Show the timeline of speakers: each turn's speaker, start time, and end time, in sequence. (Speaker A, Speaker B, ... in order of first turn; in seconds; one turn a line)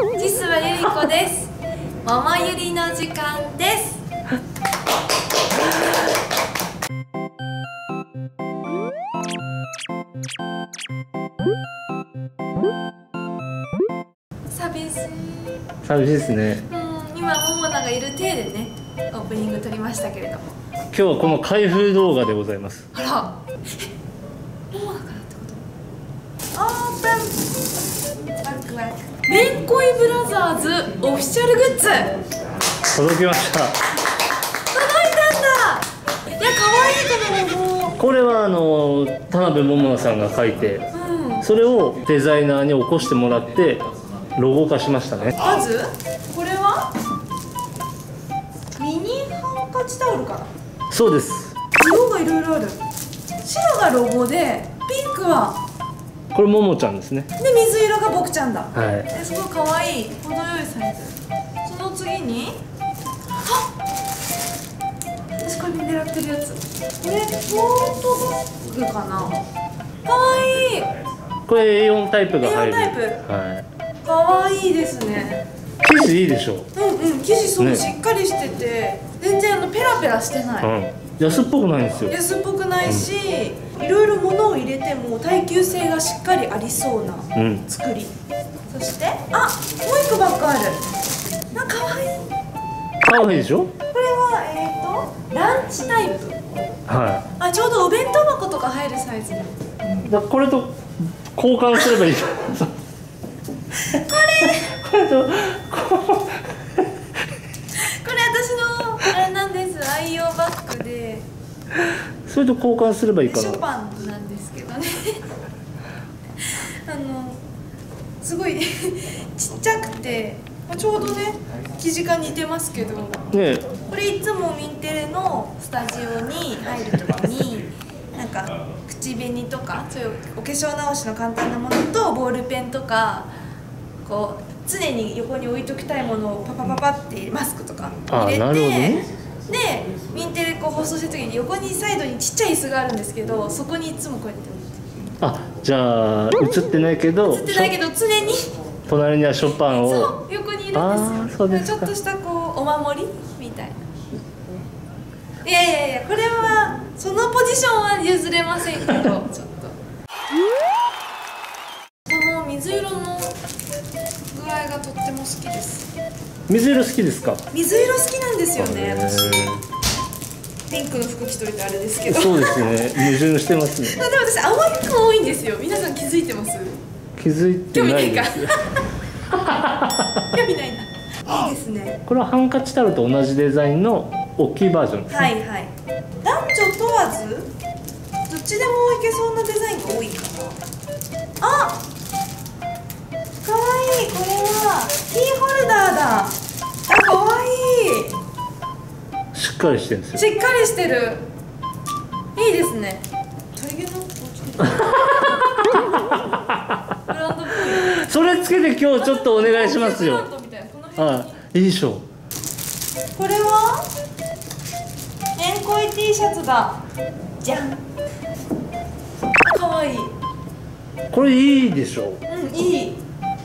Speaker A: 0.1-4.0
Speaker A: 14.5-15.7
Speaker B: 15.8-16.6
Speaker A: 16.6-20.6
Speaker B: 20.9-22.9
Speaker A: 22.9-23.9
Speaker A: 24.7-25.6
Speaker A: 26.5-27.4
Speaker A: 28.4-32.2
Speaker B: 32.9-33.8
Speaker A: 34.7-38.0
Speaker B: 38.0-40.8
Speaker A: 40.9-41.5
Speaker B: 41.4-45.4
Speaker A: 45.4-46.9
Speaker A: 48.8-50.5
Speaker B: 50.9-51.5
Speaker A: 51.7-52.8
Speaker A: 53.4-55.6
Speaker B: 56.3-57.3
Speaker A: 57.4-62.6
Speaker B: 58.7-59.1
Speaker A: 63.4-63.7
Speaker A: 65.4-69.4
Speaker A: 70.0-70.9
Speaker B: 71.5-73.7
Speaker A: 72.4-73.2
Speaker A: 74.0-75.5
Speaker B: 75.8-76.7
Speaker A: 76.7-80.7
Speaker B: 77.6-77.8
Speaker B: 80.6-82.2
Speaker A: 82.1-88.1
Speaker B: 87.3-87.6
Speaker A: 88.7-90.8
Speaker A: 91.5-92.2
Speaker B: 93.0-93.7
Speaker A: 93.9-96.3
Speaker B: 96.9-97.2
Speaker A: 97.4-99.6
Speaker B: 100.0-102.7
Speaker A: 103.7-104.8
Speaker B: 104.7-106.4
Speaker A: 107.7-111.3
Speaker B: 112.2-113.6
Speaker A: 113.2-115.2
Speaker A: 116.4-117.4
Speaker A: 118.2-123.2
Speaker B: 123.3-123.7
Speaker A: 123.9-133.3
Speaker A: 134.0-144.7
Speaker B: 138.1-139.0
Speaker B: 145.2-147.7
Speaker A: 147.3-148.5
Speaker B: 148.9-150.2
Speaker A: 149.7-153.8
Speaker B: 150.7-151.9
Speaker A: 155.4-159.7
Speaker A: 162.1-163.4
Speaker A: 164.3-165.9
Speaker B: 166.5-167.4
Speaker A: 167.5-169.6
Speaker B: 168.6-169.6
Speaker A: 170.7-172.8
Speaker B: 172.1-174.0
Speaker A: 173.8-176.8
Speaker B: 177.2-178.5
Speaker A: 177.7-178.8
Speaker B: 179.3-180.2
Speaker A: 180.3-182.0
Speaker B: 182.1-185.3
Speaker A: 185.1-187.5
Speaker A: 188.3-190.6
Speaker A: 191.4-191.8
Speaker A: 193.4-198.2
Speaker B: 199.3-200.2
Speaker A: 200.1-201.3
Speaker A: 202.3-205.3
Speaker B: 204.7-206.8
Speaker A: 207.1-208.2
Speaker B: 207.7-210.3
Speaker A: 208.9-211.4
Speaker B: 211.0-212.1
Speaker A: 213.1-213.9
Speaker A: 215.3-216.8
Speaker A: 217.4-217.8
Speaker A: 219.4-220.1
Speaker B: 221.1-222.2
Speaker A: 222.3-223.0